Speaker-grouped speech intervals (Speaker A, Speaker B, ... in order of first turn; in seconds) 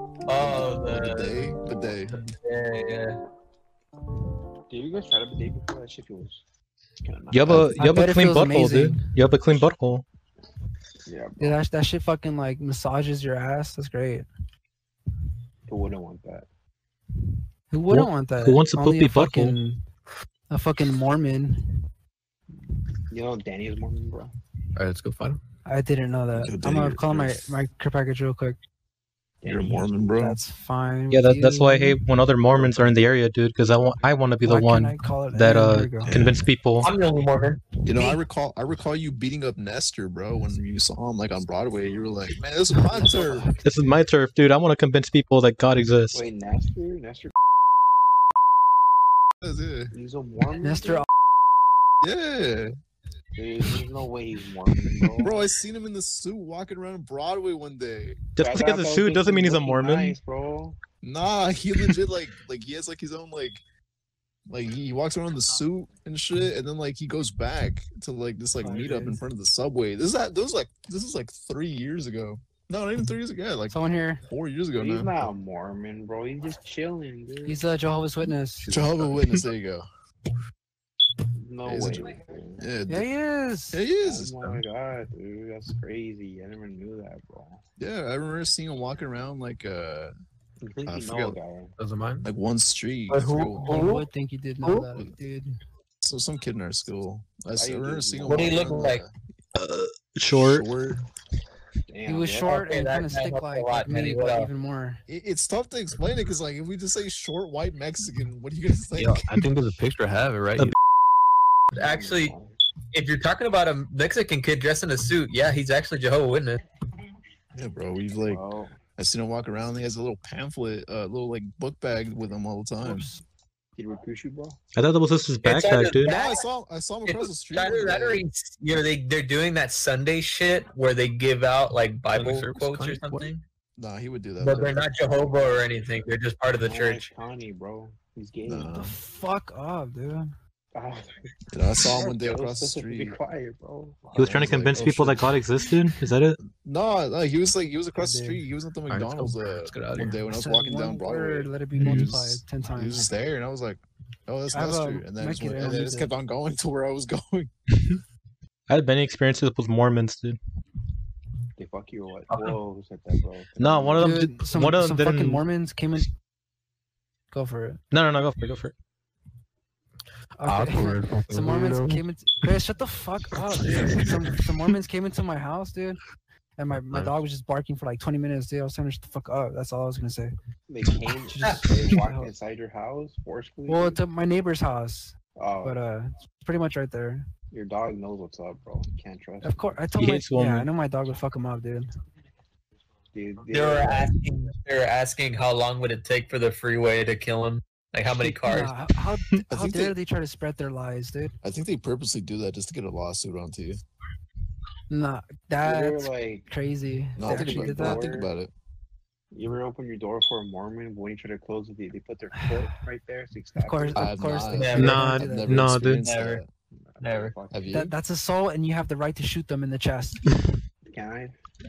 Speaker A: 0.2-1.5, 2.1-3.2, 36.8-38.2, 93.1-94.1, 98.2-99.0, 102.4-104.5, 111.7-112.3, 112.9-116.6, 125.4-126.5, 127.0-133.4, 134.4-137.1, 162.3-162.6, 181.4-181.7, 193.5-198.7, 214.5-215.0, 215.9-216.4, 217.0-217.3
Speaker B: 0.4-2.2, 26.3-27.4, 29.5-30.4, 36.1-36.4, 37.8-43.5, 49.4-49.9, 52.0-52.7, 55.2-58.2, 61.0-63.6, 64.5-75.3, 78.7-79.8, 81.6-83.1, 83.7-84.5, 87.8-90.1, 90.8-91.4, 92.2-93.8, 96.0-99.1, 100.3-101.0, 105.1-109.5, 117.5-118.4, 119.0-123.1, 126.1-128.3, 133.8-134.8, 138.5-139.0, 141.5-143.2, 144.2-145.3, 146.5-157.5, 199.5-200.0, 201.4-203.8, 207.2-208.5, 213.9-216.5, 217.5-217.9
Speaker C: 4.7-6.4, 7.0-7.7, 11.1-11.6, 15.7-16.4, 23.1-24.3, 29.4-30.2, 46.1-47.3, 49.9-51.0, 53.3-55.5, 58.4-60.8, 74.7-77.6, 81.4-82.7, 84.0-87.6, 90.6-91.7, 97.5-98.9, 101.9-102.5, 111.7-112.5, 118.2-118.8, 123.8-124.6, 136.6-138.7, 140.7-141.1, 141.8-144.6, 161.6-164.2, 180.7-184.0, 185.4-185.8, 187.5-189.9, 193.1-194.2, 205.6-206.5, 207.2-208.3, 209.3-214.2, 216.8-217.7, 220.9-221.3
Speaker D: 7.3-10.0, 17.9-19.6, 31.1-36.9, 43.6-46.2, 58.3-60.2, 99.5-100.7, 124.8-126.1, 144.2-146.4, 158.7-160.4, 163.6-165.4, 167.9-168.7, 190.0-190.7, 214.8-216.1
Speaker E: 7.8-9.0, 11.4-14.3, 17.7-19.8, 20.5-21.8, 25.7-28.6, 30.2-32.0, 34.4-36.1, 42.8-43.8, 50.6-51.0, 68.6-69.2, 73.7-74.2, 77.4-78.7, 82.9-83.8, 93.6-95.5, 102.0-105.0, 122.8-123.2, 138.8-140.3, 148.0-148.4, 150.3-153.1, 154.5-156.1, 164.0-166.1, 167.3-167.8, 170.4-176.0, 176.6-180.3, 181.2-182.3, 183.7-187.3, 189.4-191.9, 198.2-201.3, 204.9-208.0, 212.3-212.7, 213.6-215.7, 217.7-220.2
Speaker F: 24.8-25.4, 78.6-79.0, 91.8-92.3, 109.0-110.7, 132.1-133.3, 148.9-150.2, 170.4-172.0, 173.6-174.0, 176.9-177.2